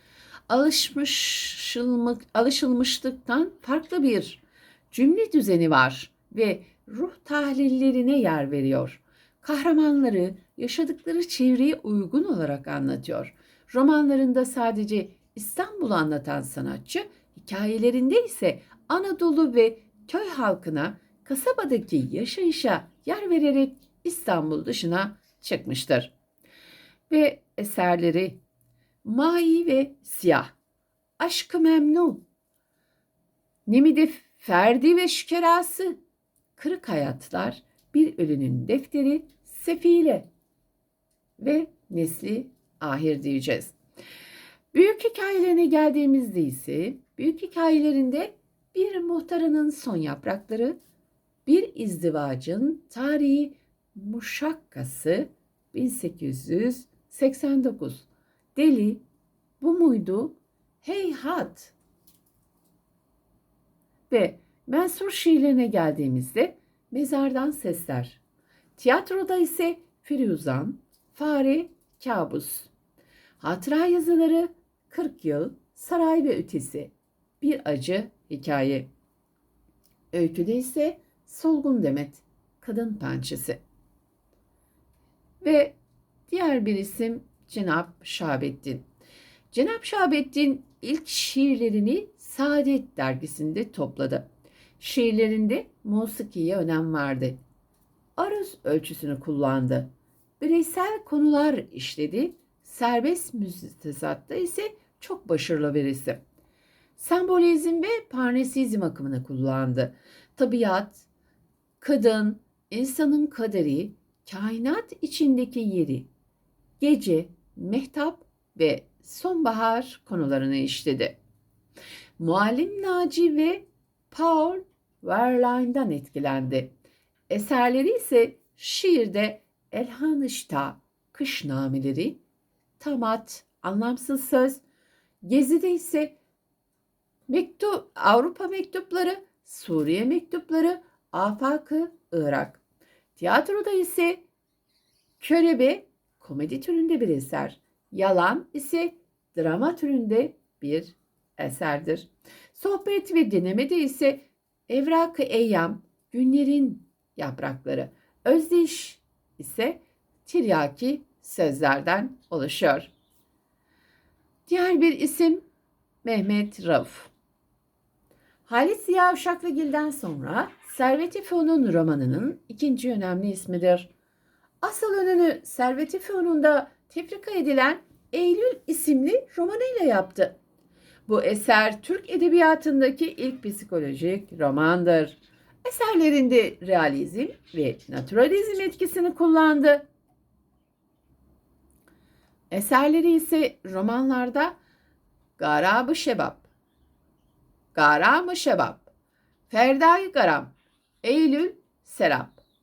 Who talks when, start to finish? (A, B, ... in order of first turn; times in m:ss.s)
0:00.5-0:26.1 A
0:27.1-0:28.4 A
0:29.0-0:30.5 A
0:31.2-0:32.2 A
0:33.7-0:36.0 A
0:36.5-0:40.3 A
0:41.4-0:43.7 A
0:44.7-0:50.8 A
0:51.4-0:59.0 A
0:59.6-1:01.7 A
1:04.1-1:08.2 A
1:08.8-1:12.7 A
1:13.4-1:18.9 A
1:20.1-1:23.6 A
1:25.4-1:25.8 A
1:26.3-1:28.8 A
1:29.5-1:34.2 A
1:34.8-1:37.4 A
1:38.2-1:46.2 A
1:47.0-1:51.0 A
1:51.8-1:56.1 A
1:56.8-2:01.2 A
2:02.2-2:06.7 A
2:07.3-2:12.2 A
2:12.8-2:14.6 A
2:15.2-2:16.2 A
2:17.3-2:22.6 A
2:23.2-2:24.2 A
2:25.2-2:42.9 A
2:44.4-2:45.4 A
2:46.0-2:47.1 A
2:48.4-2:53.9 A
2:54.6-3:00.4 A
3:01.0-3:09.8 A
3:12.5-3:14.6 A
3:15.4-3:16.5 A
3:17.7-3:18.9 A
3:19.5-3:22.4 A